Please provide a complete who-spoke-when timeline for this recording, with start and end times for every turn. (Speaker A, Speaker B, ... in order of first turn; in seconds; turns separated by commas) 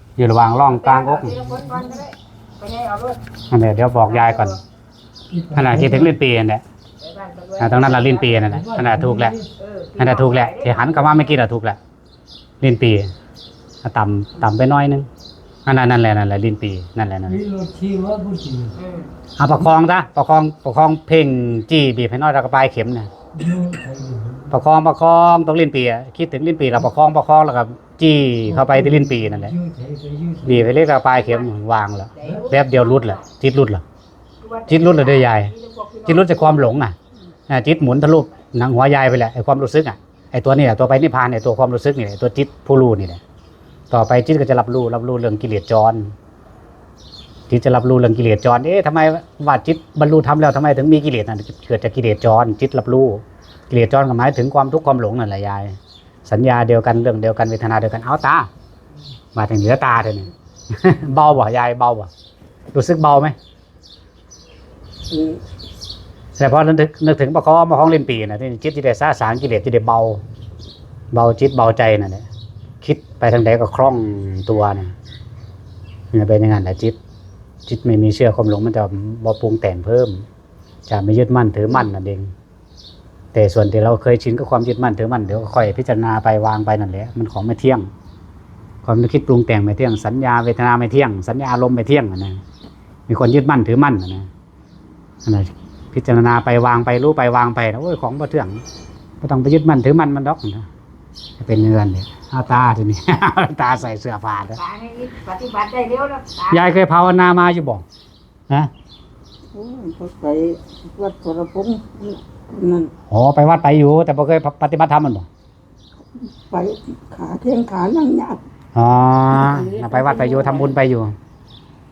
Speaker A: 0.2-1.4, Speaker B: 0.7-3.2, Speaker C: 1.4-1.9, Speaker A: 3.5-4.6, Speaker B: 4.0-4.6, Speaker C: 5.3-6.1, Speaker A: 5.5-6.6, Speaker B: 7.0-8.6, Speaker A: 7.6-9.4, Speaker C: 8.5-9.5, Speaker B: 9.6-11.4, Speaker A: 10.0-11.8, Speaker A: 12.6-13.1, Speaker A: 13.8-15.1, Speaker A: 15.7-17.4, Speaker C: 17.3-18.8, Speaker B: 18.7-19.1, Speaker A: 19.4-23.1, Speaker C: 23.4-24.5, Speaker A: 24.5-29.6, Speaker C: 28.5-30.7, Speaker A: 30.4-33.8, Speaker B: 31.0-31.5, Speaker B: 32.1-33.2, Speaker B: 34.4-36.8, Speaker A: 34.7-35.5, Speaker A: 36.0-37.0, Speaker A: 37.5-43.2, Speaker A: 43.9-46.1, Speaker A: 47.5-58.5, Speaker A: 59.3-62.1, Speaker A: 62.7-63.3, Speaker D: 65.1-65.4, Speaker A: 66.4-70.2, Speaker A: 71.1-72.3, Speaker A: 72.8-75.0, Speaker A: 76.1-77.0, Speaker A: 77.7-80.2, Speaker A: 80.9-82.3, Speaker A: 83.3-87.9, Speaker A: 88.8-92.4, Speaker A: 93.1-94.3, Speaker A: 95.2-98.6, Speaker A: 99.2-100.7, Speaker A: 101.4-104.6, Speaker B: 104.6-106.7, Speaker A: 106.5-107.8, Speaker D: 109.5-112.9, Speaker A: 113.1-115.3, Speaker D: 116.4-118.4, Speaker A: 118.8-121.1, Speaker D: 119.3-120.8